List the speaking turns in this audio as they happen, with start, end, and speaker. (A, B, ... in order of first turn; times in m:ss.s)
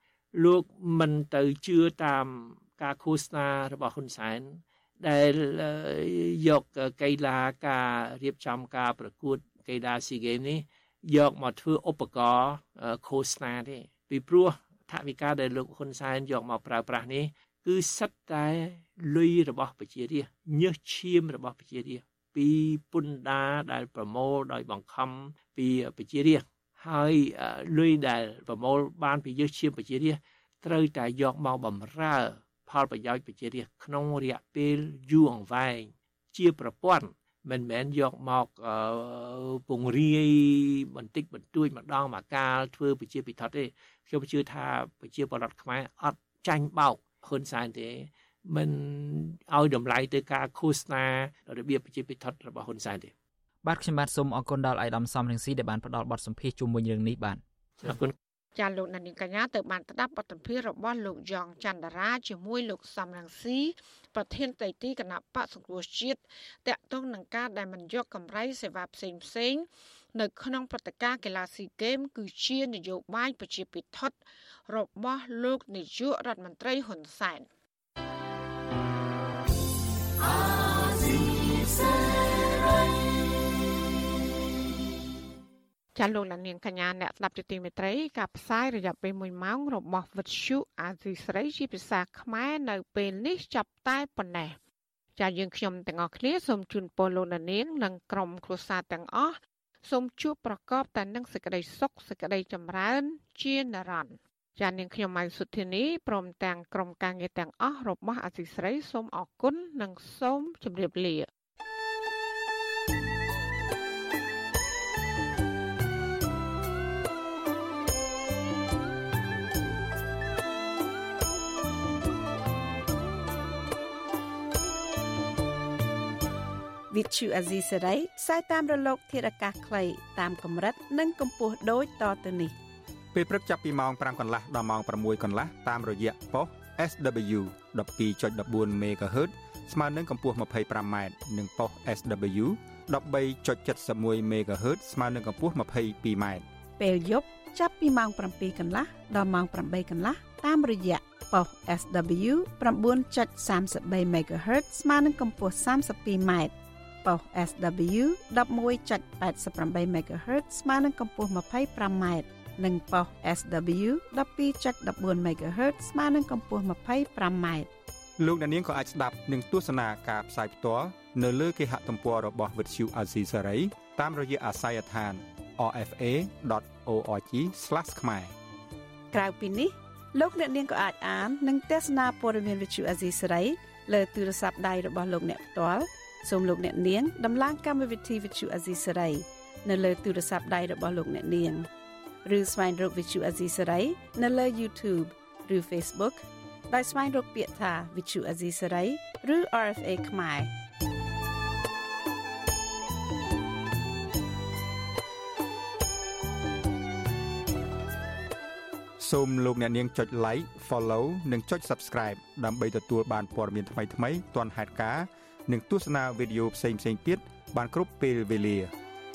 0:00.3-0:53.1 A
0:53.6-0:58.0 B
0:57.8-0:58.2 A
0:58.6-1:17.5 C
1:26.0-1:34.6 C
1:35.2-1:51.3 C
2:06.9-2:12.5 D
2:13.1-2:26.5 E
2:26.8-2:36.5 D
2:37.0-2:47.7 D
2:48.2-2:58.3 E
2:59.1-3:11.7 D
3:12.2-3:20.5 D
3:29.0-3:38.7 E